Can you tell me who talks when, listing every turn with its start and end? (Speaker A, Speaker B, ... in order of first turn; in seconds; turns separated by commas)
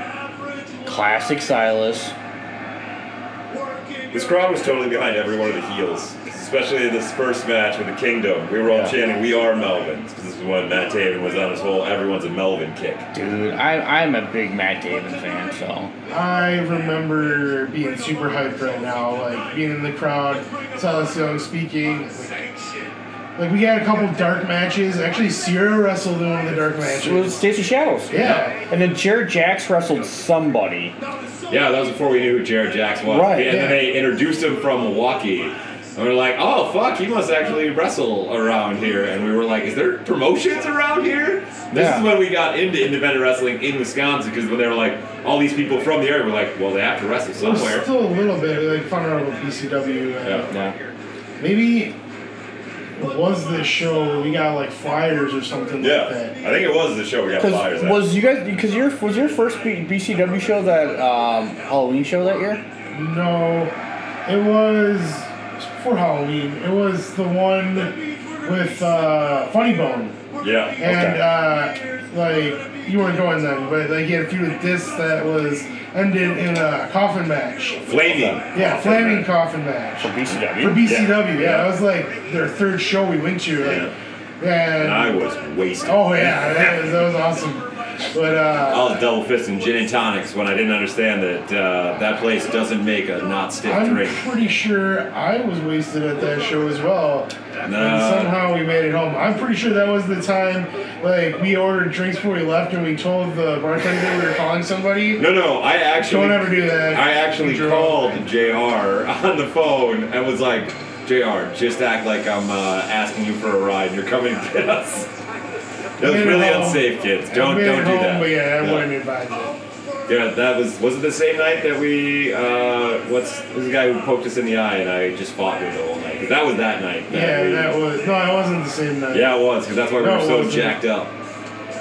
Speaker A: 0.8-2.1, Speaker B: 4.1-13.1, Speaker A: 8.7-8.9, Speaker A: 13.1-15.9, Speaker C: 16.1-22.4, Speaker C: 23.4-27.4, Speaker A: 26.9-30.9, Speaker C: 28.1-28.6, Speaker B: 28.1-28.5, Speaker B: 31.5-47.9, Speaker A: 33.0-33.6, Speaker C: 33.4-33.9, Speaker A: 41.7-42.1, Speaker C: 47.4-50.5, Speaker B: 50.2-50.5, Speaker A: 50.5-50.8, Speaker C: 51.4-51.9, Speaker C: 52.9-56.4, Speaker B: 55.8-58.1, Speaker A: 57.4-62.6, Speaker C: 62.9-63.7, Speaker C: 64.2-67.9, Speaker C: 68.4-70.2, Speaker B: 70.4-70.8, Speaker C: 70.8-77.9, Speaker A: 70.8-71.2, Speaker B: 77.8-79.3, Speaker C: 78.5-85.2, Speaker A: 80.0-80.9, Speaker B: 80.8-81.7, Speaker B: 83.6-83.9, Speaker B: 84.8-86.9, Speaker C: 85.8-89.0, Speaker B: 88.6-94.2, Speaker C: 93.6-105.2, Speaker B: 97.6-98.4, Speaker B: 105.2-115.2, Speaker C: 106.0-108.2, Speaker B: 116.0-118.9, Speaker C: 116.0-119.6, Speaker B: 120.0-127.8, Speaker C: 127.1-129.3, Speaker B: 129.1-131.1, Speaker C: 130.0-130.8